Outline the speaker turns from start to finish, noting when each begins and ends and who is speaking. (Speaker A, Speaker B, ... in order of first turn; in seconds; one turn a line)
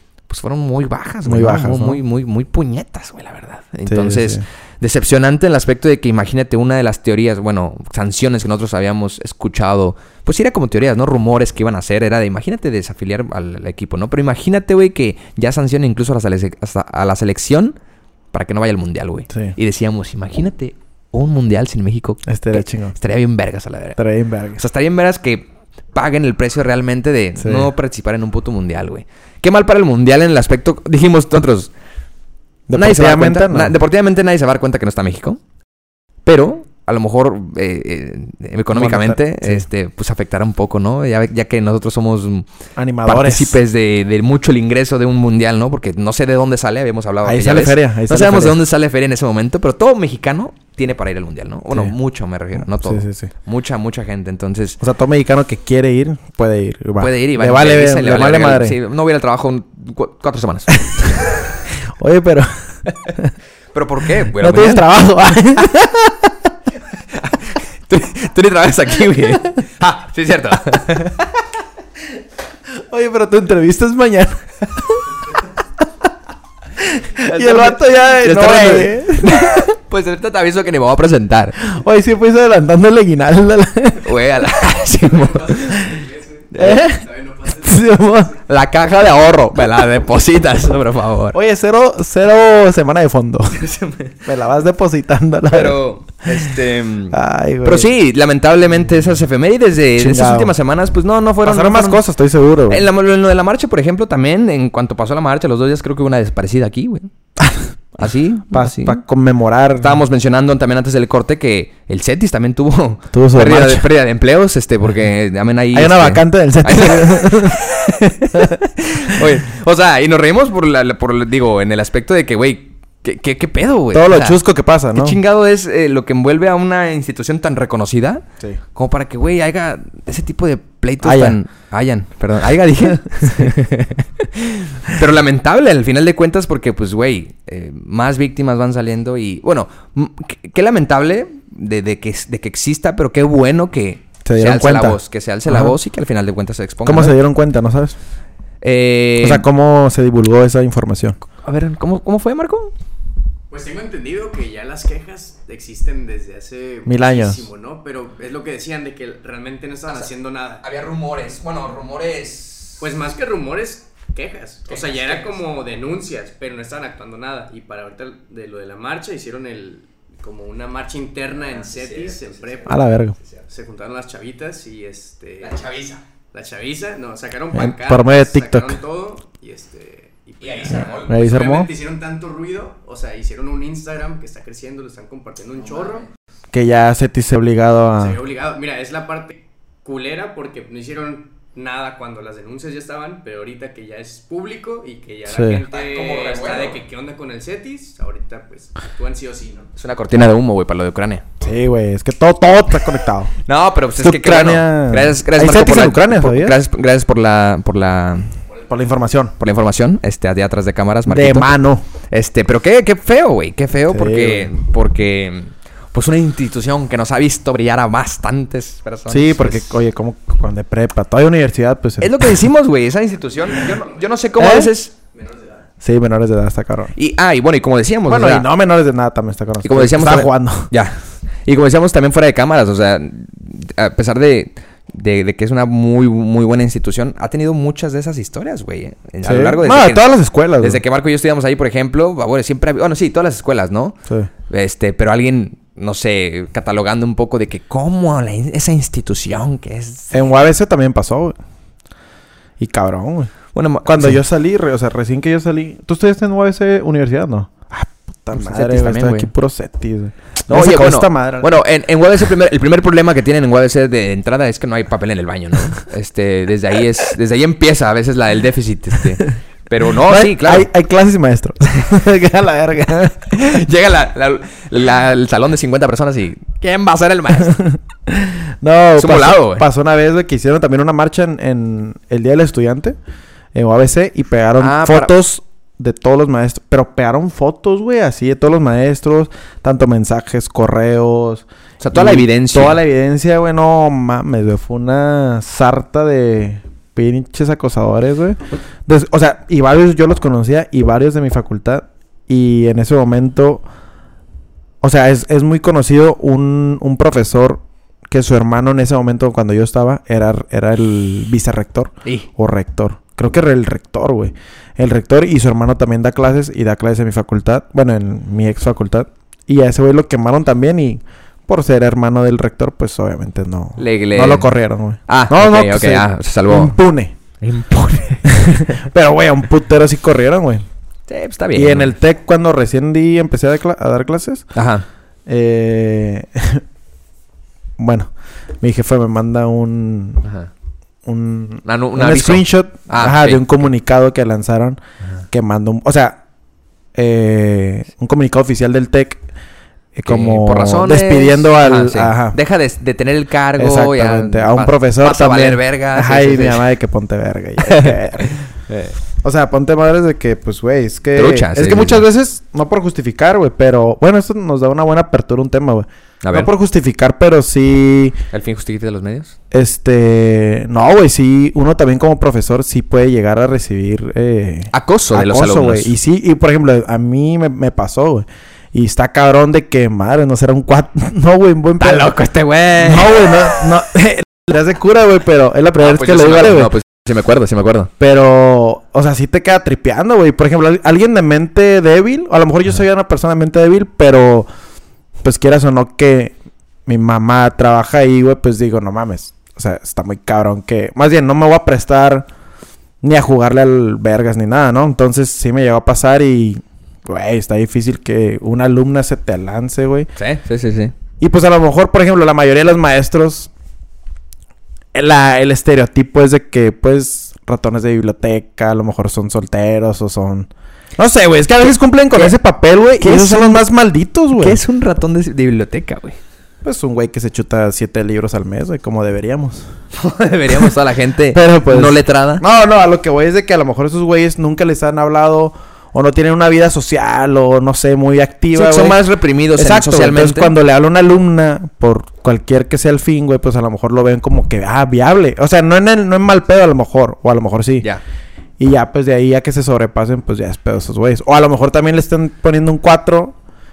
Speaker A: 0.3-17.8
Speaker B: 1.2-2.0
Speaker B: 3.9-4.4
Speaker A: 18.3-24.0
Speaker B: 22.3-22.9
Speaker B: 24.0-24.6
Speaker A: 24.6-31.7
Speaker B: 27.4-27.7
Speaker B: 32.7-33.7
Speaker A: 32.7-35.4
Speaker A: 36.2-42.5
Speaker B: 38.7-39.6
Speaker B: 42.8-43.6
Speaker A: 43.0-54.8
Speaker B: 47.2-48.6
Speaker B: 51.7-52.0
Speaker B: 52.5-53.3
Speaker B: 54.8-58.8
Speaker A: 57.0-61.3
Speaker B: 62.0-62.5
Speaker B: 63.1-63.3
Speaker A: 63.7-64.8
Speaker B: 64.3-66.3
Speaker A: 67.1-71.2
Speaker B: 72.8-75.1
Speaker B: 76.8-79.7
Speaker A: 77.2-81.6
Speaker B: 81.6-84.1
Speaker A: 84.0-86.0
Speaker C: 84.8-87.9
Speaker A: 86.5-86.8
Speaker B: 86.6-88.3
Speaker A: 88.5-91.4
Speaker B: 91.3-93.6
Speaker A: 93.5-94.2
Speaker B: 94.2-95.8
Speaker A: 95.5-102.0
Speaker B: 97.1-97.9
Speaker B: 100.0-100.5
Speaker B: 101.4-102.8
Speaker A: 102.7-107.1
Speaker A: 108.0-109.0
Speaker B: 108.5-110.0
Speaker A: 109.8-124.4
Speaker B: 113.1-113.9
Speaker B: 115.7-117.7
Speaker B: 118.3-118.6
Speaker B: 123.9-125.2
Speaker A: 124.9-147.2
Speaker B: 131.0-131.4
Speaker B: 133.1-133.5
Speaker B: 144.2-145.8
Speaker B: 146.8-147.9
Speaker A: 148.6-149.4
Speaker B: 149.2-151.2
Speaker A: 151.4-152.7
Speaker C: 153.5-160.6
Speaker B: 156.8-157.5
Speaker A: 160.6-162.8
Speaker C: 162.8-172.8
Speaker A: 164.7-165.4
Speaker A: 171.4-173.4
Speaker B: 172.7-173.1
Speaker C: 173.5-175.6
Speaker A: 175.4-176.0
Speaker C: 176.3-186.1
Speaker B: 177.5-178.8
Speaker A: 180.4-181.3
Speaker B: 181.1-181.7
Speaker B: 186.5-188.2
Speaker C: 188.0-199.7
Speaker B: 195.3-195.6
Speaker A: 195.7-196.8
Speaker A: 199.8-201.2
Speaker B: 201.4-203.3
Speaker A: 203.4-208.3
Speaker B: 204.0-206.6
Speaker B: 208.7-209.3
Speaker A: 209.4-211.5
Speaker B: 211.1-211.8
Speaker A: 212.1-219.7
Speaker B: 213.9-214.5
Speaker B: 219.1-222.4
Speaker A: 222.0-224.9
Speaker C: 223.6-223.9
Speaker B: 224.4-224.7
Speaker C: 225.1-225.6
Speaker B: 225.8-226.9
Speaker A: 226.9-228.5
Speaker B: 228.1-230.7
Speaker A: 229.6-243.9
Speaker B: 239.2-240.8
Speaker A: 244.5-250.2
Speaker B: 250.1-251.3
Speaker B: 252.6-253.3
Speaker A: 253.5-254.2
Speaker B: 253.8-261.5
Speaker A: 258.3-259.3
Speaker A: 260.5-270.7
Speaker B: 270.0-273.3
Speaker A: 273.3-277.6
Speaker B: 277.4-282.9
Speaker A: 279.0-279.6
Speaker B: 283.5-303.6
Speaker A: 284.6-285.1
Speaker A: 291.8-292.8
Speaker B: 304.8-327.1
Speaker A: 323.8-324.5
Speaker A: 325.1-326.8
Speaker A: 327.4-328.8
Speaker B: 328.2-330.6
Speaker A: 331.1-331.9
Speaker B: 331.5-334.5
Speaker A: 334.5-334.9
Speaker B: 335.3-336.6
Speaker B: 337.8-340.2
Speaker A: 340.2-340.5
Speaker B: 341.0-344.8
Speaker A: 341.6-343.6
Speaker B: 345.3-346.2
Speaker B: 346.9-349.2
Speaker B: 349.9-352.4
Speaker A: 350.1-356.6
Speaker B: 353.6-358.3
Speaker A: 357.6-358.9
Speaker B: 359.2-368.2
Speaker A: 361.1-362.0
Speaker A: 366.2-366.5
Speaker A: 368.3-369.3
Speaker B: 369.5-382.1
Speaker A: 374.7-375.9
Speaker A: 381.8-383.3
Speaker B: 382.8-386.7
Speaker A: 385.8-387.9
Speaker B: 388.0-394.5
Speaker B: 395.2-396.3
Speaker B: 396.9-402.3
Speaker B: 403.0-410.1
Speaker A: 410.1-410.9
Speaker B: 411.2-413.5
Speaker B: 414.9-424.6
Speaker A: 423.0-423.6
Speaker A: 424.4-426.2
Speaker B: 426.6-429.6
Speaker A: 429.9-432.4
Speaker B: 431.3-439.0
Speaker A: 438.5-440.5
Speaker B: 439.6-447.9
Speaker B: 448.6-453.3